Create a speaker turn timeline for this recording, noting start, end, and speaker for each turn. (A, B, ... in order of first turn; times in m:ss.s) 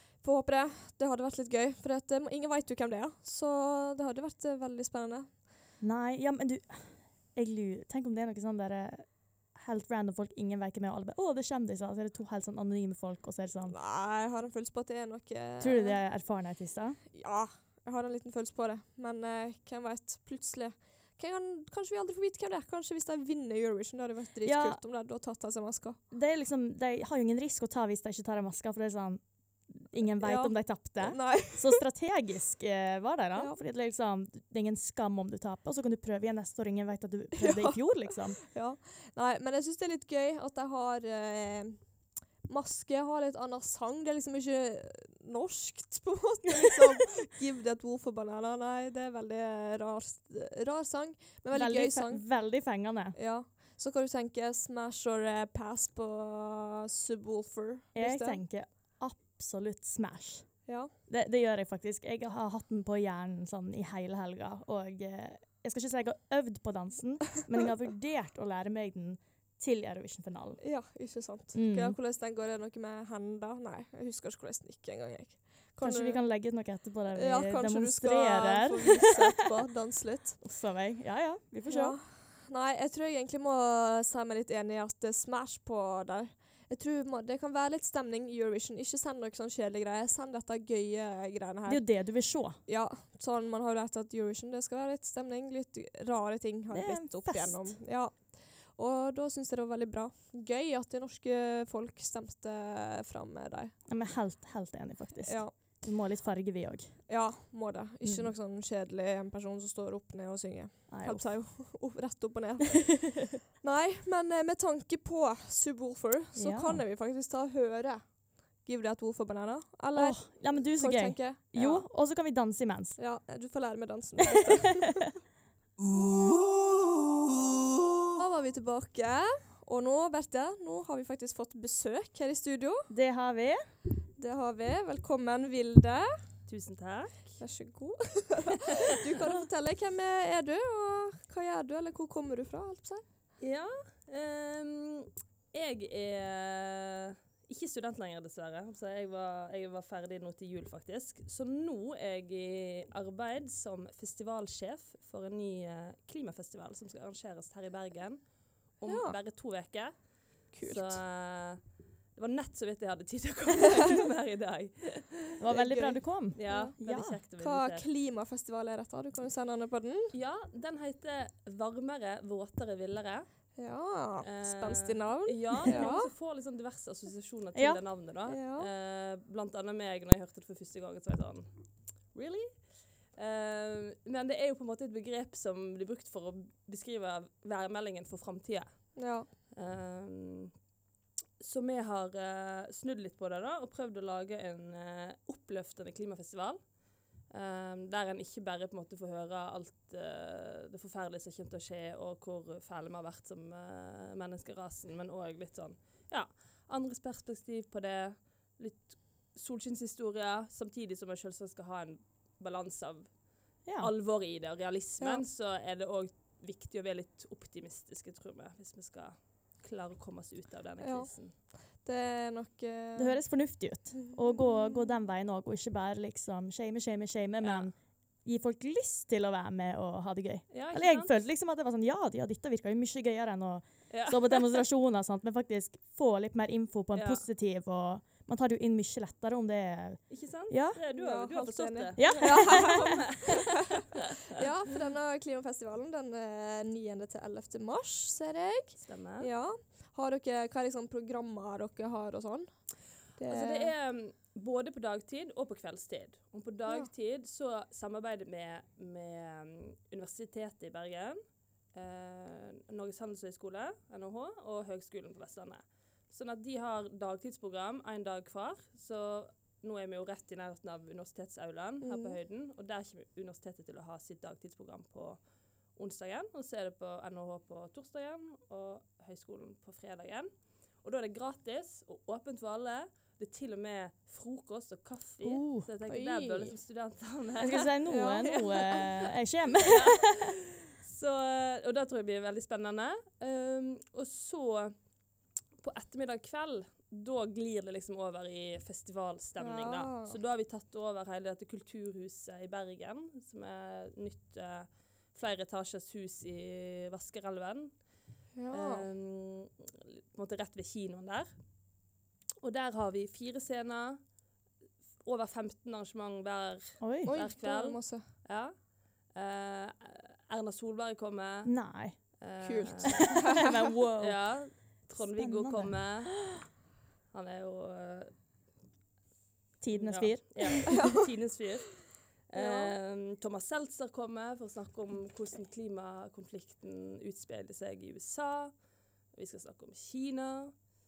0:00.2-0:05.3 A
0:05.8-0:13.7 B
0:13.6-0:16.0 A
0:15.6-0:17.0 B
0:17.1-0:26.0 A
0:24.4-0:24.8 B
0:26.1-0:38.4 B
0:30.2-0:31.8 A
0:37.4-0:37.8 A
0:38.4-0:41.8 A
0:42.5-0:52.2 A
0:51.5-0:53.2 B
0:53.2-0:58.4 A
0:57.9-1:00.5 B
1:01.1-1:10.6 B
1:10.6-1:16.2 A
1:11.5-1:12.0 B
1:15.8-1:19.3 B
1:17.1-1:20.4 A
1:20.4-1:22.0 B
1:21.7-1:31.8 A
1:31.7-1:32.6 B
1:32.7-1:43.7 A
1:36.7-1:37.7 B
1:43.9-1:46.9 B
1:45.2-1:45.5 A
1:47.1-1:58.0 A
1:48.0-1:48.3 B
1:50.9-1:51.3 B
1:52.9-1:53.4 B
1:56.4-1:56.8 B
1:58.6-2:01.8 A
1:59.9-2:03.0 B
2:03.0-2:05.0 A
2:04.3-2:05.1 B
2:08.1-2:12.9 A
2:12.9-2:13.6 B
2:14.2-2:16.1 A
2:16.5-2:17.4 C
2:17.4-2:23.0 A
2:23.4-2:38.2 C
2:38.8-2:39.9 C
2:38.8-2:39.2 A
2:40.5-2:41.0 A
2:40.6-2:41.6 C
2:42.1-2:45.4 C
2:45.4-2:47.2 B
2:45.5-2:46.8 A
2:46.3-2:47.8 C
2:47.4-2:50.1 A
2:50.1-2:53.2 C
2:53.6-2:56.1 A
2:54.2-3:01.5 C
2:57.5-2:57.8 B
2:58.3-2:58.7 A
3:02.1-3:02.6 C
3:03.1-3:09.0 C
3:09.0-3:09.3 A
3:09.5-3:10.5 C
3:11.4-3:16.6 C
3:17.3-3:33.1 C
3:33.6-3:33.9 B
3:33.8-3:41.3 C
3:35.0-3:35.2 A
3:40.8-3:41.1 A
3:41.8-3:43.2 A
3:43.0-4:00.8 B
3:44.1-3:44.5 A
3:47.4-3:47.7 C
3:50.5-3:51.1 C
3:53.9-3:54.6 C
3:56.9-3:57.3 C
4:00.1-4:04.4 C
4:00.9-4:03.7 A
4:02.0-4:02.9 B
4:04.3-4:12.5 A
4:08.8-4:09.3 C
4:13.2-4:13.7 A
4:13.3-4:21.2 C
4:21.7-4:35.2 C
4:31.8-4:32.2 A
4:35.8-4:48.3 C
4:45.2-4:45.7 B
4:45.9-4:46.6 A
4:47.4-4:50.3 B
4:47.8-4:48.9 A
4:49.6-4:54.7 C
4:55.6-5:07.7 C
4:59.4-5:00.2 A
5:08.3-5:08.8 A
5:08.5-5:11.3 C
5:12.4-5:14.0 C
5:15.0-5:18.5 C
5:16.8-5:17.1 B
5:17.0-5:18.1 A
5:19.1-5:21.5 C
5:21.4-5:22.0 B
5:22.2-5:23.3 C
5:22.4-5:23.6 A
5:23.0-5:24.2 B
5:24.0-5:26.2 C
5:25.0-5:25.8 B
5:27.1-5:28.1 C
5:29.6-5:30.8 B
5:29.7-5:38.5 C
5:30.7-5:31.0 A
5:32.3-5:32.7 A
5:39.1-5:40.5 C